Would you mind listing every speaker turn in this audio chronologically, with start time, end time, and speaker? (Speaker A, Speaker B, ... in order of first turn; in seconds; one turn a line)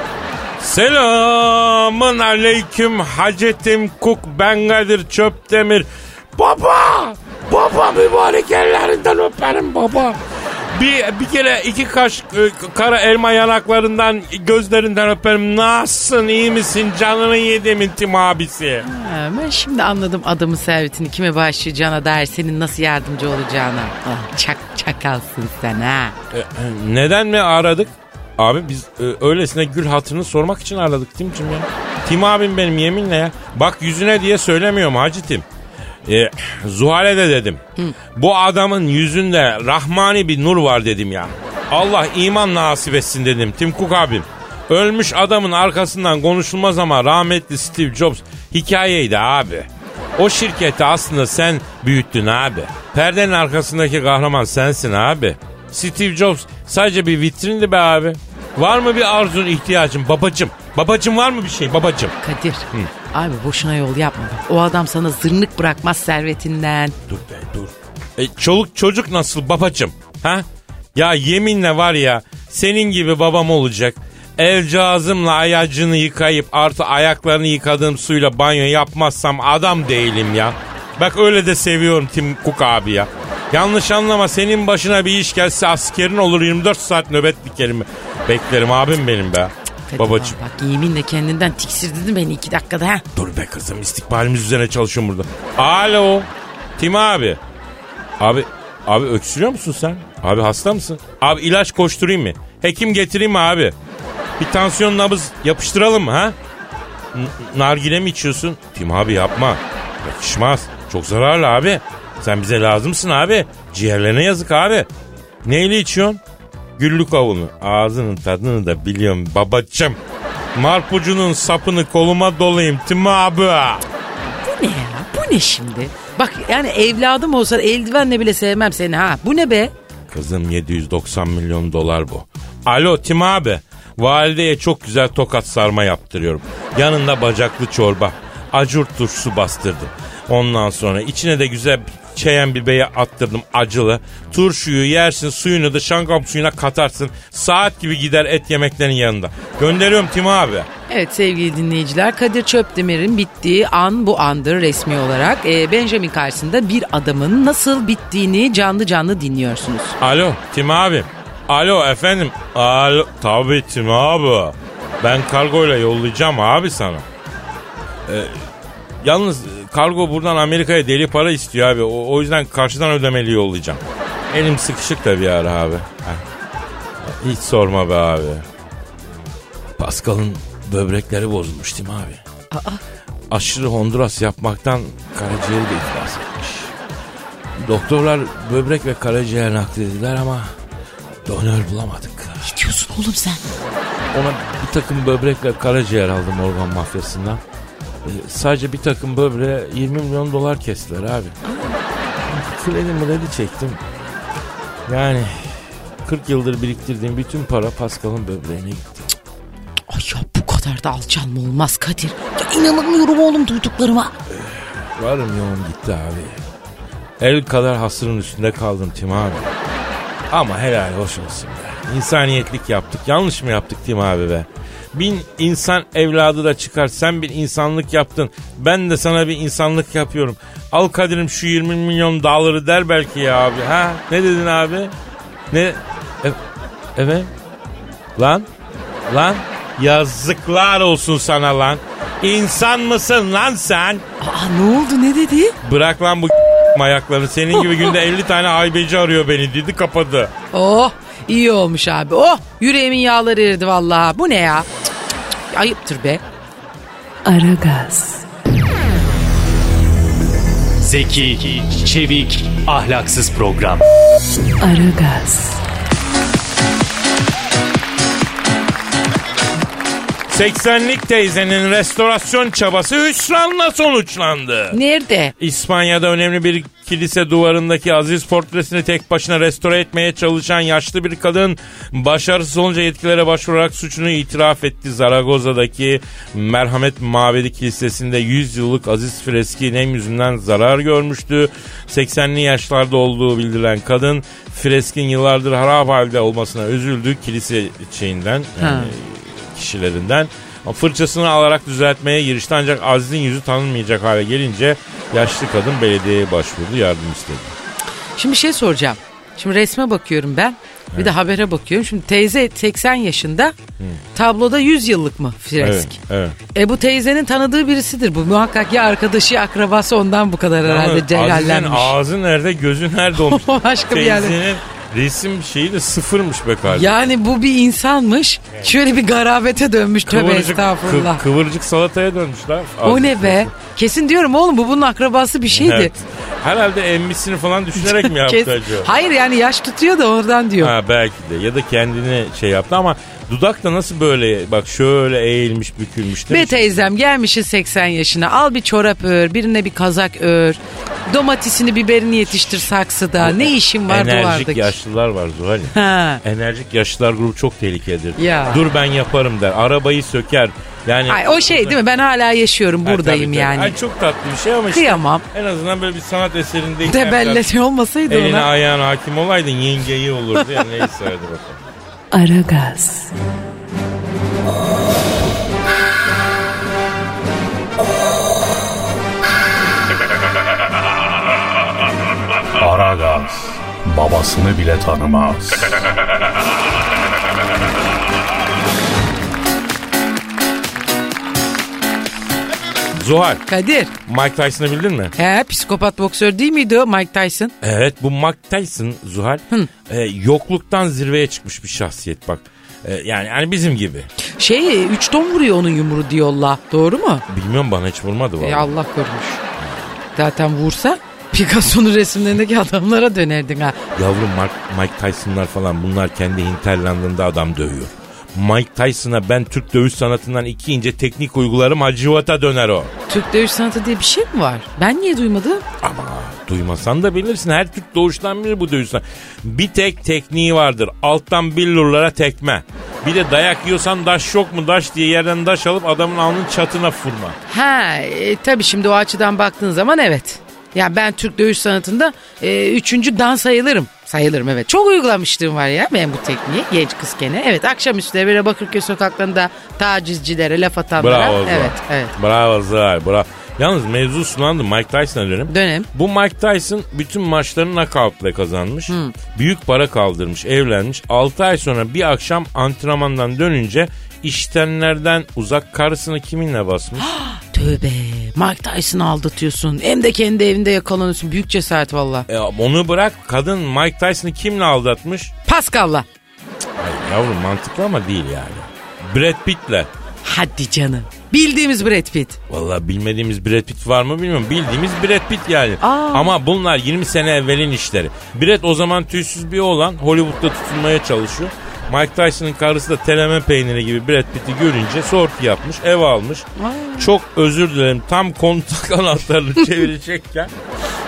Speaker A: 0.6-10.2
Speaker A: 10.7-18.9
Speaker B: 18.9-26.1
Speaker A: 26.3-35.5
Speaker A: 36.0-62.1
Speaker B: 62.2-66.9
Speaker A: 67.1-90.3
Speaker B: 89.9-93.0
Speaker A: 93.1-97.4
Speaker A: 98.2-103.7
Speaker A: 104.4-106.3
Speaker A: 107.1-114.9
Speaker A: 115.4-116.2
Speaker A: 116.8-120.0
Speaker A: 120.5-123.8
Speaker B: 124.4-129.7
Speaker A: 130.1-150.7
Speaker B: 150.9-160.0
Speaker A: 160.0-167.1
Speaker A: 168.1-168.4
Speaker A: 169.0-176.2
Speaker A: 177.0-178.4
Speaker A: 179.8-182.2
Speaker B: 182.5-182.8
Speaker A: 183.3-186.7
Speaker A: 187.6-190.5
Speaker A: 191.2-192.5
Speaker B: 192.4-193.4
Speaker A: 194.1-197.4
Speaker A: 198.0-201.4
Speaker B: 201.5-201.7
Speaker A: 202.2-203.8
Speaker A: 204.9-209.1
Speaker B: 209.9-214.1
Speaker A: 214.3-216.4
Speaker A: 217.2-219.5
Speaker A: 220.3-234.9
Speaker A: 235.5-236.4
Speaker A: 236.9-237.3
Speaker A: 238.2-238.5
Speaker A: 239.1-244.0
Speaker B: 244.2-245.6
Speaker A: 245.6-250.3
Speaker B: 250.5-254.7
Speaker B: 255.5-256.2
Speaker C: 257.2-258.2
Speaker D: 260.8-263.8
Speaker C: 264.6-265.6
Speaker A: 270.3-274.8
Speaker B: 274.7-275.3
Speaker A: 275.4-307.5
Speaker B: 298.6-298.9
Speaker B: 308.2-313.5
Speaker B: 314.1-316.0
Speaker A: 315.6-316.4
Speaker B: 316.5-321.9
Speaker A: 320.6-327.0
Speaker B: 323.2-324.4
Speaker B: 326.7-331.2
Speaker A: 330.0-333.5
Speaker B: 332.8-335.9
Speaker A: 335.5-338.9
Speaker B: 337.8-340.7
Speaker A: 340.6-346.9
Speaker B: 346.3-354.7
Speaker A: 353.2-361.8
Speaker B: 355.7-356.2
Speaker B: 358.2-358.6
Speaker B: 361.1-363.8
Speaker A: 362.8-367.4
Speaker B: 364.7-365.2
Speaker B: 366.8-368.5
Speaker A: 368.1-371.6
Speaker C: 372.1-373.1
Speaker E: 382.6-385.8
Speaker A: 392.9-393.4
Speaker B: 393.5-393.9
Speaker A: 394.0-395.1
Speaker B: 395.1-397.5
Speaker A: 397.6-404.1
Speaker B: 404.4-407.2
Speaker A: 407.3-408.7
Speaker B: 408.4-409.4
Speaker B: 410.1-413.8
Speaker A: 413.9-422.9
Speaker B: 423.1-425.6
Speaker A: 425.8-437.4
Speaker B: 437.5-452.1
Speaker A: 451.0-467.1
Speaker B: 455.5-455.9
Speaker B: 458.9-459.1
Speaker B: 467.0-472.3
Speaker A: 472.3-475.3
Speaker B: 475.5-476.1
Speaker A: 476.8-479.9
Speaker B: 480.2-482.4
Speaker A: 482.5-500.5
Speaker B: 485.8-486.4
Speaker B: 496.6-497.1